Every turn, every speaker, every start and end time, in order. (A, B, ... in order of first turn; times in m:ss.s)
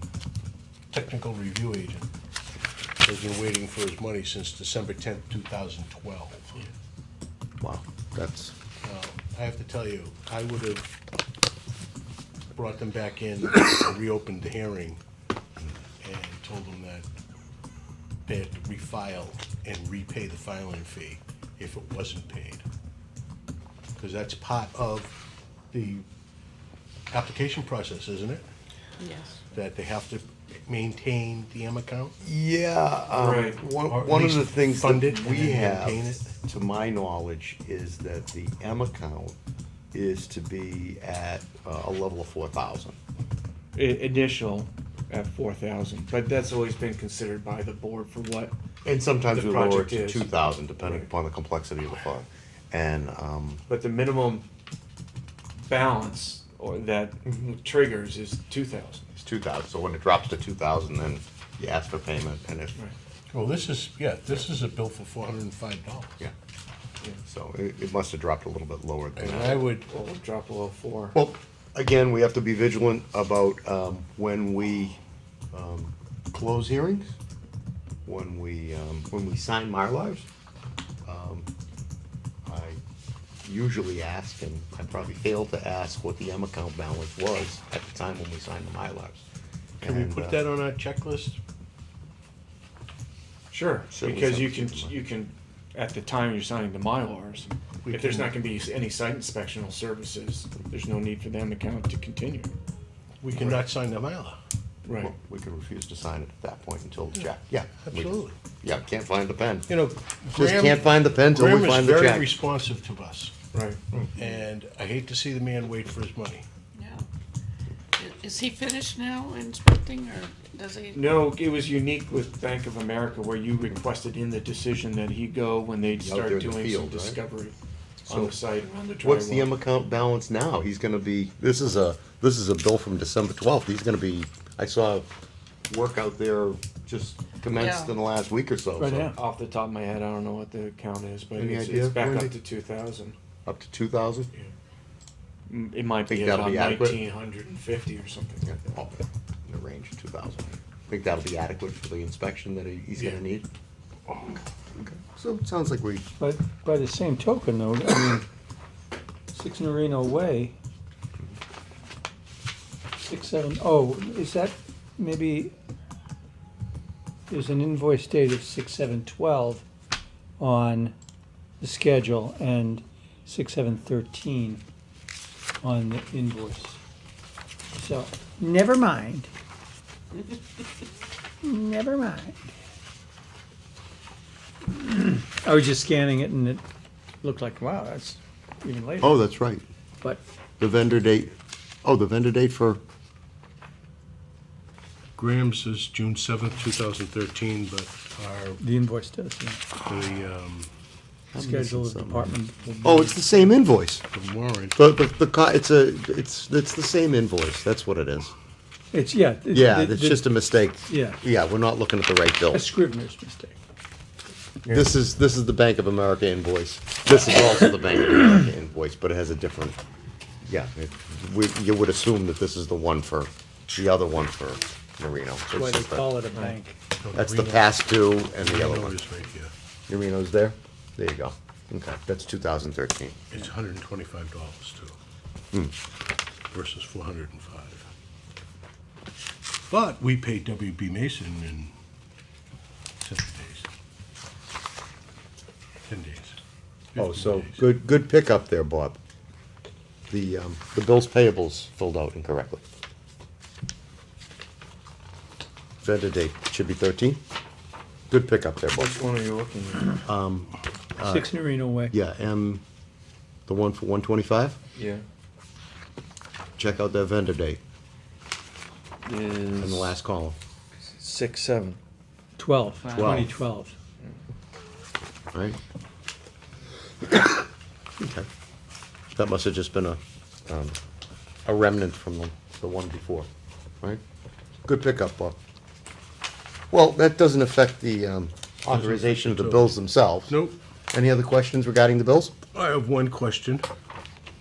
0:00.9-0:02.1 A
0:03.0-0:06.7 A
0:07.6-0:08.5 B
0:08.8-0:11.0 A
0:12.5-0:15.0 A
0:16.0-0:17.0 A
0:18.2-0:22.6 A
0:24.0-0:25.2 A
0:25.7-0:26.0 A
0:27.1-0:28.5 A
0:29.0-0:29.4 C
0:29.5-0:32.1 A
0:32.2-0:39.4 B
0:33.1-0:33.6 D
0:33.8-0:36.3 A
0:39.9-0:43.0 B
0:43.7-0:48.5 D
0:48.8-0:53.6 B
0:49.3-0:51.1 D
0:53.7-0:54.4 D
0:55.6-0:59.1 D
0:59.1-1:02.7 B
1:03.3-1:06.1 A
1:07.2-1:09.6 B
1:09.2-1:09.9 A
1:09.9-1:11.2 D
1:11.1-1:15.0 B
1:15.5-1:17.1 B
1:18.0-1:20.2 B
1:21.0-1:21.5 B
1:22.4-1:22.8 B
1:23.4-1:29.2 B
1:29.8-1:30.4 B
1:29.8-1:31.4 A
1:33.5-1:42.5 D
1:33.9-1:34.9 B
1:37.8-1:38.4 A
1:43.2-1:44.4 A
1:44.8-1:45.1 D
1:45.0-1:49.7 B
1:47.8-1:48.4 A
1:49.7-1:53.3 A
1:50.3-1:52.3 B
1:53.5-1:53.8 D
1:54.2-1:56.5 A
1:56.8-1:57.0 C
1:58.0-2:01.0 C
2:00.9-2:07.6 D
2:06.0-2:07.2 B
2:08.0-2:08.4 B
2:08.1-2:09.5 D
2:09.0-2:15.1 B
2:15.7-2:19.1 B
2:17.6-2:17.8 C
2:18.8-2:19.2 E
2:19.1-2:23.2 D
2:21.4-2:22.3 B
2:23.4-2:24.3 B
2:25.5-2:28.5 D
2:26.1-2:27.0 B
2:28.4-2:33.5 B
2:34.8-2:36.0 B
2:36.2-2:38.2 E
2:39.3-2:40.6 E
2:43.0-2:45.5 E
2:47.3-2:49.6 E
2:50.4-2:50.9 E
2:51.6-2:54.6 E
2:55.6-2:56.8 E
2:57.7-2:59.3 E
3:01.4-3:02.5 E
3:04.7-3:06.6 E
3:07.2-3:09.3 E
3:09.0-3:09.6 B
3:10.6-3:11.3 B
3:11.8-3:12.8 B
3:15.2-3:18.6 A
3:18.6-3:19.6 E
3:19.8-3:20.7 A
3:21.3-3:24.0 B
3:21.4-3:23.4 E
3:24.1-3:24.8 A
3:24.8-3:28.3 B
3:28.9-3:30.3 E
3:29.5-3:32.7 B
3:30.8-3:31.2 E
3:32.5-3:33.6 E
3:34.6-3:34.9 D
3:34.7-3:39.8 B
3:40.4-3:46.2 B
3:45.5-3:46.8 E
3:46.4-3:47.8 A
3:47.1-3:49.0 B
3:48.4-3:49.5 A
3:49.9-3:53.2 B
3:53.3-3:55.0 A
3:56.5-3:57.9 A
3:59.7-4:01.7 A
4:03.0-4:03.7 A
4:05.8-4:06.4 A
4:06.9-4:07.6 A
4:07.0-4:09.0 B
4:10.1-4:12.6 B
4:15.8-4:17.2 B
4:18.1-4:18.9 B
4:18.8-4:20.0 D
4:20.0-4:22.6 B
4:21.0-4:22.0 E
4:23.5-4:24.6 B
4:24.7-4:25.0 D
4:26.6-4:27.6 B
4:29.0-4:30.0 D
4:29.6-4:30.4 B
4:30.8-4:31.8 D
4:32.4-4:33.7 E
4:32.9-4:33.3 B
4:35.3-4:35.6 B
4:37.0-4:37.4 B
4:38.0-4:38.3 B
4:39.2-4:40.8 B
4:41.4-4:43.3 B
4:44.6-4:45.4 B
4:46.7-4:50.4 B
4:48.7-4:50.6 A
4:50.9-4:52.3 B
4:52.5-4:53.6 A